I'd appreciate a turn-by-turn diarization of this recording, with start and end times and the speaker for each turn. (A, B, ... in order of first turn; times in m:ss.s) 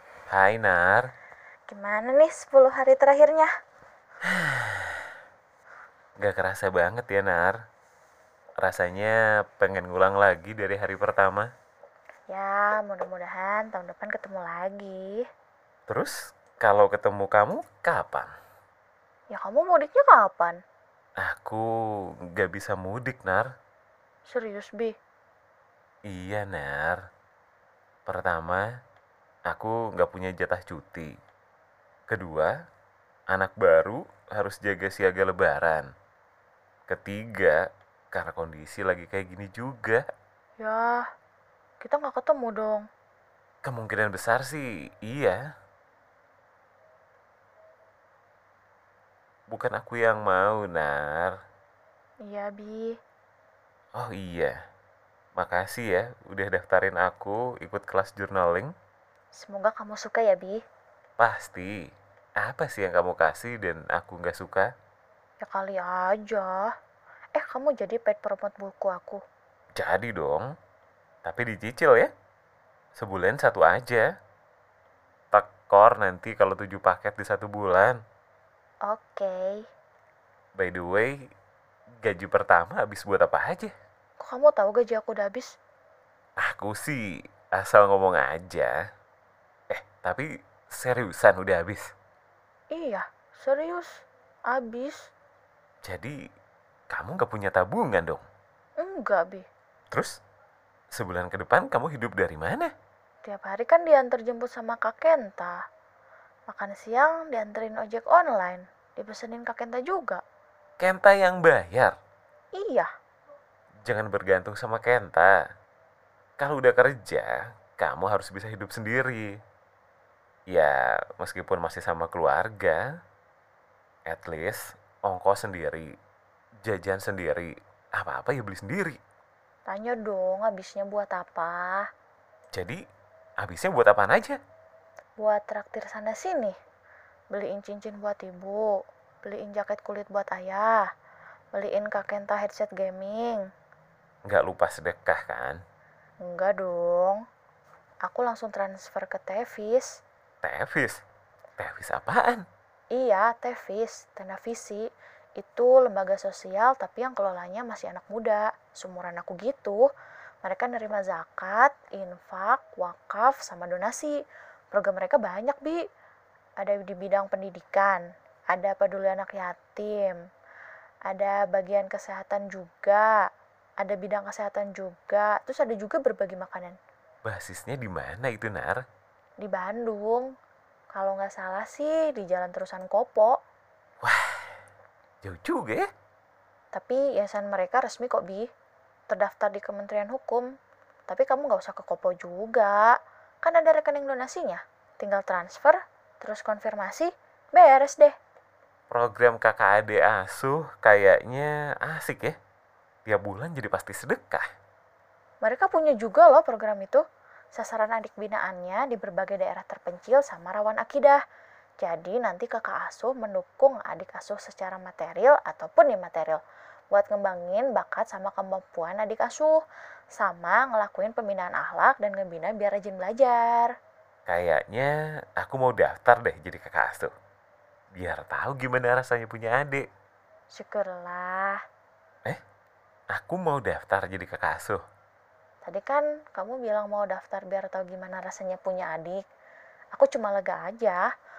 0:00.3-0:01.1 A
0:01.7-0:03.5 B
0:04.2-0:05.1 A
0:06.2-0:07.6 A
0:08.6-0:11.5 A
0:12.3-0:15.2 B
0:15.9-0:18.3 A
0:19.3-0:20.6 B
0:21.2-0:21.6 A
0:22.4-0:23.5 A
0:24.3-0:25.0 B
0:26.1-0:27.0 A
0:28.1-0:28.6 A
0:29.5-0:31.1 A
0:32.1-0:32.5 A
0:33.3-0:35.9 A
0:36.9-0:37.6 A
0:38.1-0:40.0 A
0:40.6-0:41.0 B
0:41.8-0:42.8 B
0:43.6-0:45.4 A
0:49.5-0:51.3 A
0:52.3-0:53.0 B
0:54.0-0:54.5 A
0:55.4-0:58.7 A
0:59.4-1:00.6 B
1:01.2-1:01.7 A
1:02.4-1:04.7 A
1:05.4-1:06.7 B
1:07.4-1:09.2 B
1:09.8-1:10.5 A
1:11.2-1:12.1 A
1:13.0-1:14.1 A
1:15.3-1:18.0 A
1:18.9-1:19.6 B
1:20.6-1:21.1 A
1:22.0-1:23.7 A
1:24.2-1:25.5 B
1:26.4-1:27.0 A
1:27.6-1:28.7 A
1:29.7-1:31.9 A
1:32.7-1:35.0 B
1:35.8-1:36.2 A
1:36.9-1:38.2 A
1:38.8-1:39.5 B
1:40.9-1:42.7 A
1:43.2-1:45.5 B
1:46.5-1:50.2 B
1:50.8-1:52.0 A
1:52.6-1:52.9 B
1:53.9-1:55.3 A
1:56.4-1:59.3 A
2:00.5-2:02.8 A
2:04.1-2:05.9 A
2:06.6-2:09.0 A
2:09.7-2:11.9 B
2:12.5-2:12.8 A
2:13.4-2:14.4 A
2:15.2-2:16.6 B
2:17.3-2:18.7 B
2:19.2-2:20.8 B
2:21.5-2:23.4 B
2:24.3-2:25.6 A
2:26.2-2:27.2 B
2:28.1-2:30.0 B
2:30.4-2:31.0 A
2:31.6-2:32.4 A
2:33.0-2:34.8 B
2:35.4-2:39.8 B
2:40.4-2:44.2 B
2:44.7-2:45.8 B
2:46.6-2:48.0 B
2:48.5-2:50.2 B
2:51.1-2:53.1 B
2:53.8-2:56.8 B
2:57.3-2:58.8 A
2:59.4-3:00.3 B
3:00.9-3:03.4 B
3:05.2-3:05.9 A
3:06.7-3:08.5 B
3:09.1-3:10.5 B
3:11.1-3:12.9 B
3:13.4-3:18.1 B
3:18.9-3:22.4 A
3:23.0-3:24.4 A
3:25.4-3:27.0 B
3:27.6-3:31.2 B
3:31.8-3:36.4 B
3:36.9-3:39.5 B
3:40.2-3:43.7 B
3:44.3-3:47.1 A
3:48.0-3:49.8 A
3:50.5-3:51.6 B
3:53.1-3:54.8 A
3:55.6-3:59.2 B
4:00.0-4:01.0 B